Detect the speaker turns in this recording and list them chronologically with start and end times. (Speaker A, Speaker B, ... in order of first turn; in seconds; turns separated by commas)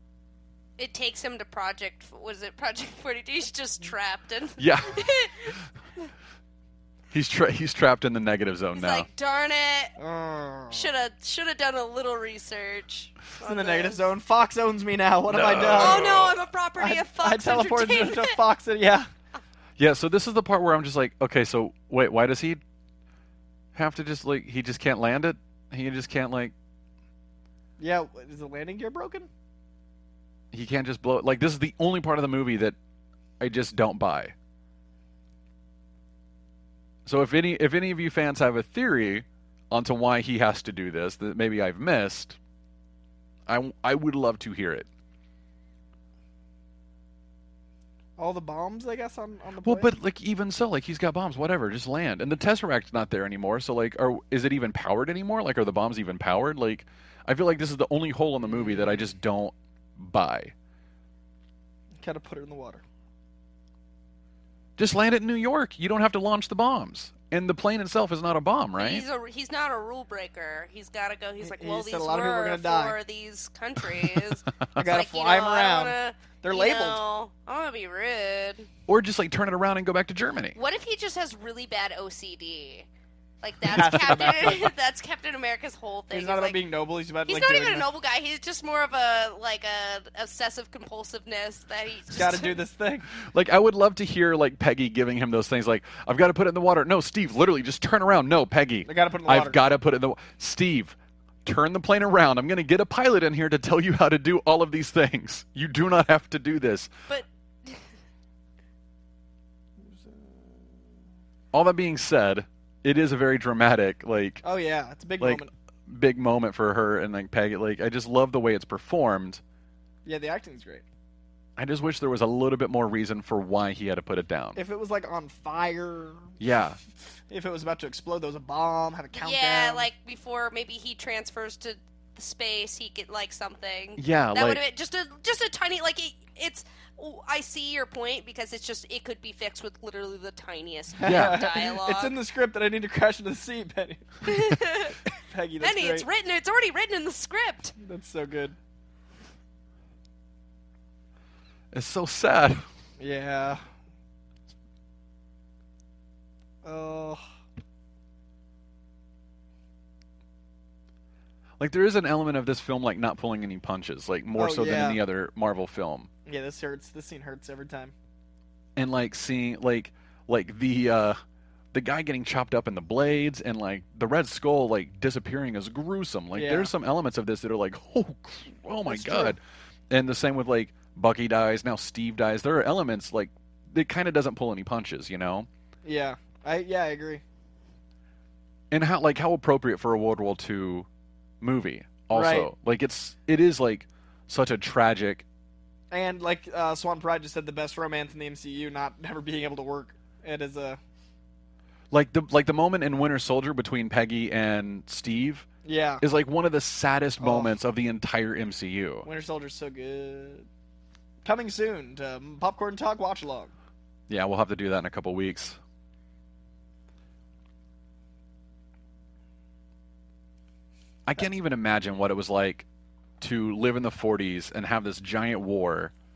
Speaker A: 0.8-5.6, Speaker B: 4.6-5.5, Speaker B: 7.1-9.1, Speaker A: 8.8-9.9, Speaker C: 10.0-10.9, Speaker A: 10.7-14.0, Speaker C: 13.4-19.1, Speaker B: 15.3-16.4, Speaker A: 15.6-18.4, Speaker B: 19.8-22.6, Speaker B: 23.7-26.5, Speaker C: 27.8-29.3, Speaker B: 30.5-32.8, Speaker B: 33.4-34.3, Speaker B: 37.1-42.4, Speaker B: 43.5-44.9, Speaker C: 48.2-49.9, Speaker B: 49.6-60.5, Speaker C: 58.5-59.0, Speaker C: 62.0-62.8, Speaker B: 64.8-69.0, Speaker A: 68.8-78.7, Speaker C: 71.4-73.0, Speaker C: 74.8-77.0, Speaker B: 78.9-80.6, Speaker A: 80.5-82.9, Speaker A: 83.4-86.6, Speaker C: 83.7-84.7, Speaker B: 83.7-84.5, Speaker C: 86.1-87.9, Speaker A: 87.3-92.6, Speaker C: 92.1-93.1, Speaker B: 93.3-106.9, Speaker C: 98.8-99.6, Speaker A: 107.1-107.8, Speaker C: 109.8-110.7, Speaker B: 111.5-114.4, Speaker C: 114.4-115.5, Speaker B: 115.2-119.4, Speaker C: 120.0-120.8, Speaker B: 121.6-124.6, Speaker C: 124.5-126.3, Speaker B: 126.4-126.8, Speaker C: 127.3-129.9, Speaker A: 129.1-142.1, Speaker B: 134.0-134.6, Speaker C: 141.0-144.6, Speaker B: 141.0-141.5, Speaker A: 144.2-145.1, Speaker C: 145.1-146.1, Speaker A: 145.6-147.8, Speaker C: 147.8-148.6, Speaker B: 151.7-152.7, Speaker C: 153.0-153.7, Speaker C: 156.6-157.2, Speaker B: 161.6-166.1, Speaker C: 164.3-165.0, Speaker C: 166.3-167.9, Speaker B: 168.8-171.2, Speaker B: 171.7-185.5, Speaker C: 176.3-176.7, Speaker C: 178.9-179.4, Speaker C: 185.8-187.2, Speaker B: 188.7-190.9, Speaker B: 191.4-195.2, Speaker C: 192.1-192.5, Speaker C: 195.9-200.8, Speaker B: 201.9-205.5, Speaker C: 205.7-206.0, Speaker B: 206.0-209.1, Speaker C: 207.2-207.5, Speaker C: 209.0-210.5, Speaker C: 211.2-213.5, Speaker B: 214.1-215.6, Speaker B: 221.1-222.7, Speaker B: 223.2-225.9